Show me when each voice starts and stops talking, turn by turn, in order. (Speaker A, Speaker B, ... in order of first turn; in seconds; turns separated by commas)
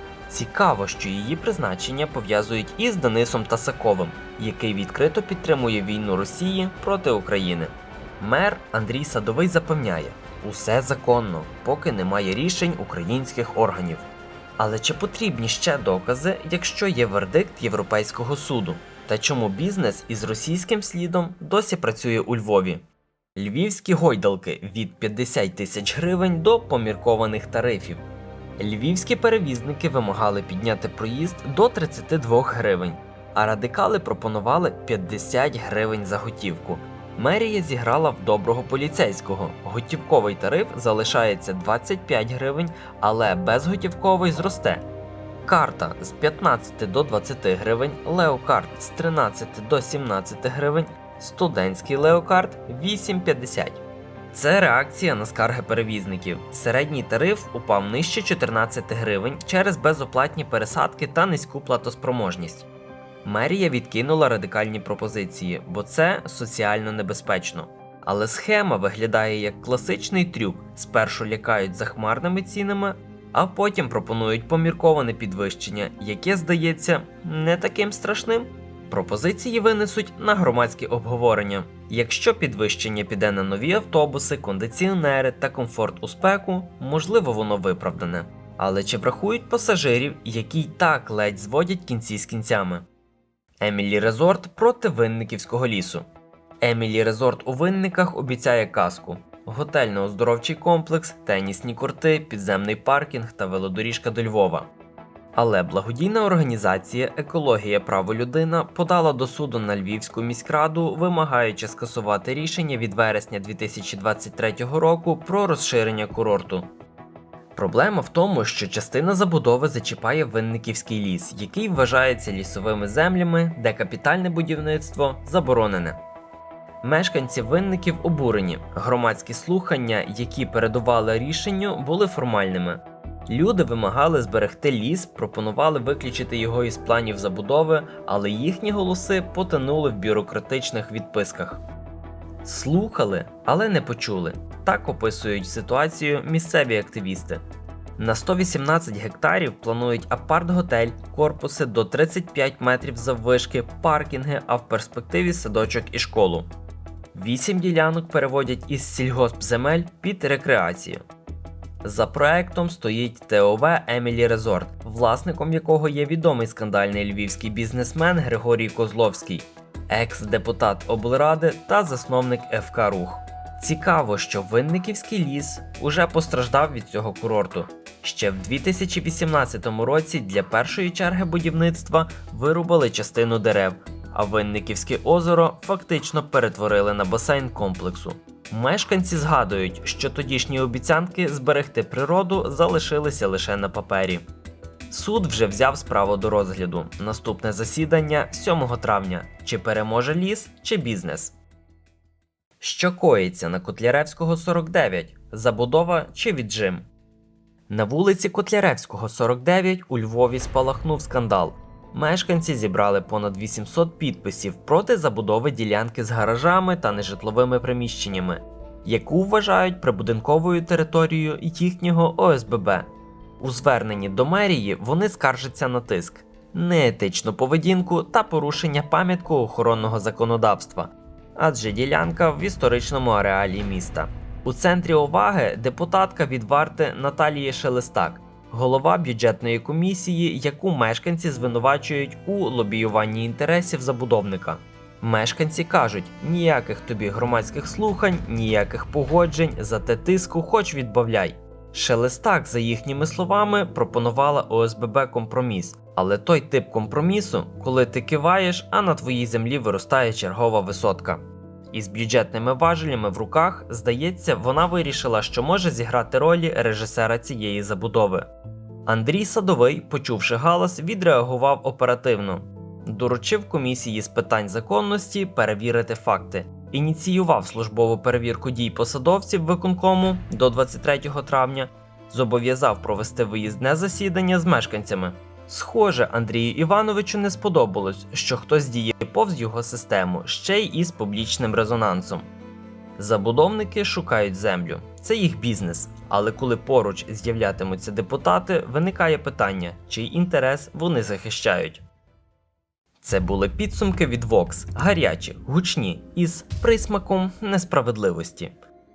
Speaker A: 0.3-14.1, Speaker A: 14.6-28.1, Speaker A: 28.6-44.9, Speaker A: 45.5-62.7, Speaker A: 63.2-92.9, Speaker A: 93.6-96.1, Speaker A: 96.6-104.7, Speaker A: 105.3-116.7, Speaker A: 117.5-126.0, Speaker A: 126.8-141.6, Speaker A: 142.4-147.4, Speaker A: 148.0-156.5, Speaker A: 157.1-161.0, Speaker A: 161.8-194.3, Speaker A: 194.9-201.4, Speaker A: 202.6-206.9, Speaker A: 207.7-268.3, Speaker A: 268.9-292.3, Speaker A: 293.0-301.8, Speaker A: 303.0-308.6